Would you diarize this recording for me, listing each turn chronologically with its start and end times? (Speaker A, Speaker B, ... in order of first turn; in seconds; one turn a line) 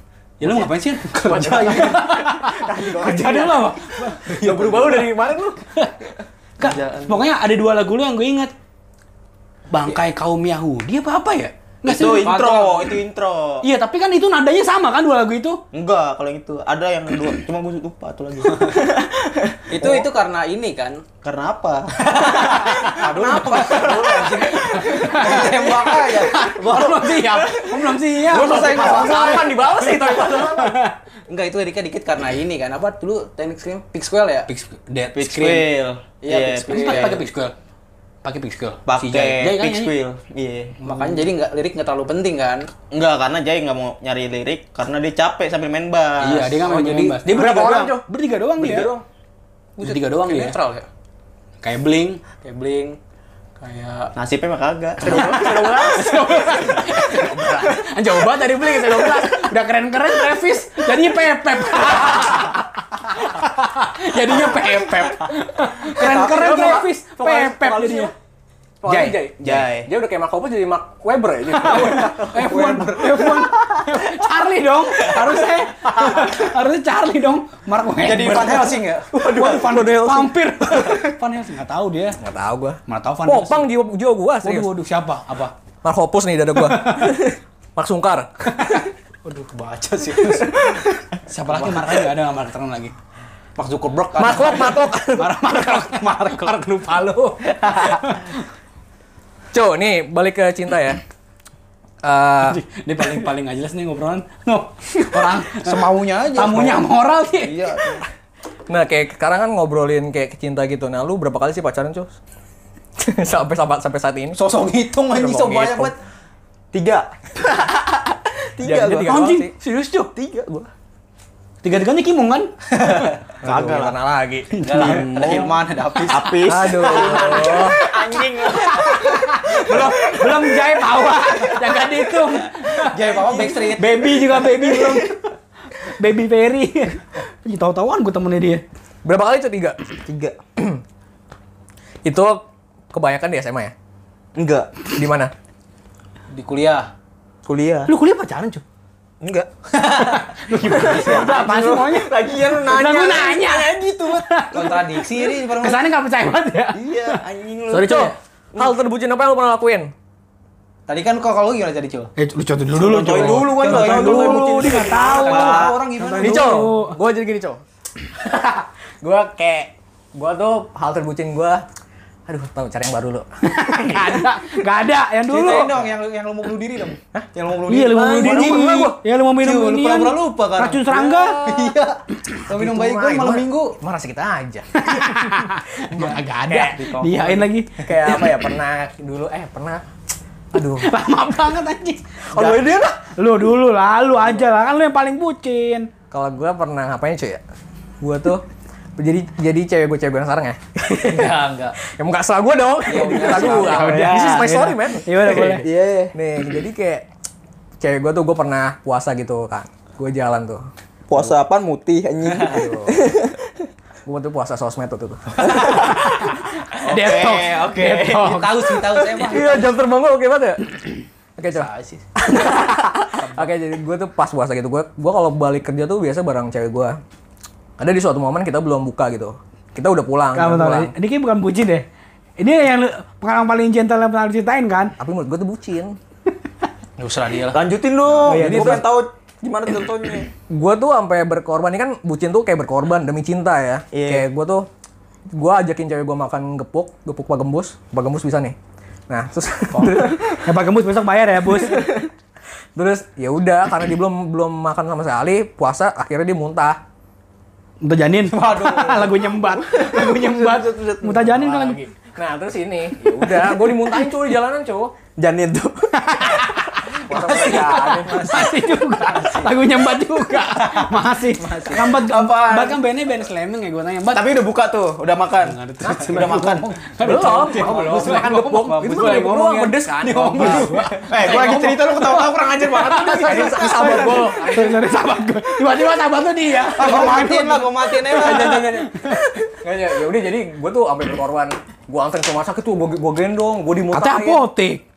Speaker A: 0.4-5.0
Speaker B: 1.2-3.2
Speaker C: 2.4-3.7
Speaker B: 4.2-5.6
Speaker A: 6.6-8.5
Speaker C: 6.6-7.3
Speaker A: 9.7-12.7
Speaker C: 11.8-13.7
Speaker D: 12.0-12.9
Speaker A: 13.6-15.6
Speaker C: 15.7-20.1
Speaker D: 19.7-21.1
Speaker C: 21.2-29.3
Speaker D: 22.1-26.5
Speaker A: 22.2-23.9
Speaker A: 24.5-29.2
Speaker B: 28.3-30.8
Speaker D: 28.4-29.6
Speaker A: 29.9-30.9
Speaker D: 31.3-34.5
Speaker A: 34.5-35.7
Speaker C: 35.1-37.2
Speaker D: 36.2-37.2
Speaker A: 36.6-37.5
Speaker A: 38.2-39.9
Speaker C: 38.9-40.8
Speaker D: 40.8-42.7
Speaker A: 40.8-41.3
Speaker C: 42.9-46.7
Speaker A: 46.2-48.9
Speaker D: 46.7-47.8
Speaker B: 46.7-48.0
Speaker B: 48.6-49.0
Speaker D: 48.6-49.0
Speaker D: 49.8-50.9
Speaker A: 49.8-50.6
Speaker A: 51.6-52.3
Speaker D: 52.4-53.0
Speaker A: 53.6-54.1
Speaker C: 54.1-55.4
Speaker B: 55.0-57.6
Speaker A: 55.0-62.6
Speaker B: 59.0-59.3
Speaker B: 62.0-62.5
Speaker A: 63.1-68.1
Speaker B: 65.9-68.1
Speaker B: 68.8-72.5
Speaker A: 68.9-69.2
Speaker D: 68.9-69.9
Speaker A: 71.5-82.2
Speaker D: 72.3-73.4
Speaker D: 78.0-79.2
Speaker B: 79.1-80.3
Speaker B: 82.2-84.7
Speaker A: 82.9-83.7
Speaker A: 84.4-85.5
Speaker B: 85.8-88.9
Speaker A: 86.6-87.3
Speaker D: 89.2-90.9
Speaker A: 91.3-92.9
Speaker D: 91.4-92.1
Speaker D: 93.6-94.9
Speaker B: 94.2-95.6
Speaker A: 95.1-98.4
Speaker D: 95.6-96.6
Speaker B: 99.5-101.0
Speaker B: 102.0-102.6
Speaker A: 102.5-107.8
Speaker D: 105.1-106.9
Speaker C: 107.4-108.0
Speaker B: 108.7-112.2
Speaker B: 113.0-114.4
Speaker D: 114.4-115.9
Speaker B: 115.1-115.9
Speaker C: 116.7-119.3
Speaker B: 118.6-119.5
Speaker A: 119.0-120.1
Speaker C: 120.1-120.7
Speaker A: 121.6-122.5
Speaker D: 122.8-123.1
Speaker C: 123.4-124.0
Speaker B: 123.4-124.5
Speaker A: 124.5-125.5
Speaker D: 124.6-127.5
Speaker C: 124.7-130.3
Speaker B: 126.5-127.8
Speaker A: 126.6-126.9
Speaker A: 128.7-135.2
Speaker D: 129.7-130.4
Speaker D: 132.8-134.4
Speaker C: 133.1-133.6
Speaker C: 134.6-135.2
Speaker A: 135.8-138.6
Speaker B: 139.0-139.8
Speaker C: 140.1-140.4
Speaker B: 142.1-143.7
Speaker C: 144.4-144.7
Speaker B: 144.9-145.3
Speaker D: 146.3-146.9
Speaker C: 147.4-147.9
Speaker A: 147.9-148.6
Speaker C: 149.2-149.5
Speaker A: 149.7-158.1
Speaker D: 150.1-151.3
Speaker C: 150.6-154.5
Speaker D: 154.5-155.8
Speaker C: 156.7-158.8
Speaker B: 157.7-159.9
Speaker D: 160.9-162.1
Speaker A: 162.2-167.0
Speaker C: 162.7-165.8
Speaker D: 163.1-166.7
Speaker B: 166.2-167.6
Speaker B: 168.1-171.6
Speaker B: 172.3-174.3
Speaker A: 173.4-175.7
Speaker D: 175.3-183.8
Speaker A: 177.7-181.4
Speaker C: 178.1-178.9
Speaker B: 178.2-179.0
Speaker B: 181.2-181.7
Speaker B: 182.5-185.0
Speaker A: 184.7-188.2
Speaker B: 185.8-186.8
Speaker D: 186.7-187.5
Speaker B: 187.8-189.8
Speaker B: 190.5-190.9
Speaker A: 190.8-192.0
Speaker B: 192.3-193.0
Speaker C: 192.3-192.8
Speaker A: 193.2-195.9
Speaker B: 196.1-197.4
Speaker B: 198.0-198.4
Speaker B: 199.0-207.1
Speaker D: 201.0-201.8
Speaker D: 202.9-204.4
Speaker A: 203.0-205.7
Speaker C: 203.6-204.6
Speaker C: 205.3-206.1
Speaker B: 207.8-210.6
Speaker C: 211.1-213.6
Speaker D: 212.3-212.6
Speaker B: 212.4-213.1
Speaker B: 214.1-216.0
Speaker A: 215.4-219.1
Speaker C: 215.5-215.9
Speaker C: 216.9-217.7
Speaker D: 216.9-219.7
Speaker B: 219.1-227.0
Speaker D: 221.5-222.0
Speaker D: 223.2-223.5
Speaker B: 227.8-230.9
Speaker A: 230.3-231.9
Speaker A: 232.4-234.9
Speaker B: 235.0-236.0
Speaker D: 237.0-237.6
Speaker C: 237.5-240.3
Speaker A: 238.2-238.9
Speaker B: 238.3-238.8
Speaker B: 240.5-244.7
Speaker C: 243.9-244.3
Speaker B: 245.3-248.6
Speaker B: 249.1-250.4
Speaker A: 249.7-251.8
Speaker C: 251.7-252.0
Speaker B: 252.7-256.8
Speaker A: 257.8-261.8
Speaker D: 258.3-259.3
Speaker C: 259.6-261.3
Speaker B: 261.2-264.9
Speaker A: 263.7-264.0
Speaker C: 265.2-266.6
Speaker A: 266.0-274.4
Speaker B: 267.0-268.6
Speaker C: 267.1-267.6
Speaker D: 270.9-271.6
Speaker C: 271.8-272.8
Speaker C: 274.1-276.7
Speaker A: 275.4-279.3
Speaker B: 275.8-276.2
Speaker B: 277.0-280.7
Speaker D: 277.5-284.1
Speaker A: 280.0-289.2
Speaker C: 281.0-283.6
Speaker B: 282.9-284.9
Speaker D: 286.7-288.9
Speaker B: 288.2-288.6
Speaker B: 289.5-294.5
Speaker A: 293.9-294.8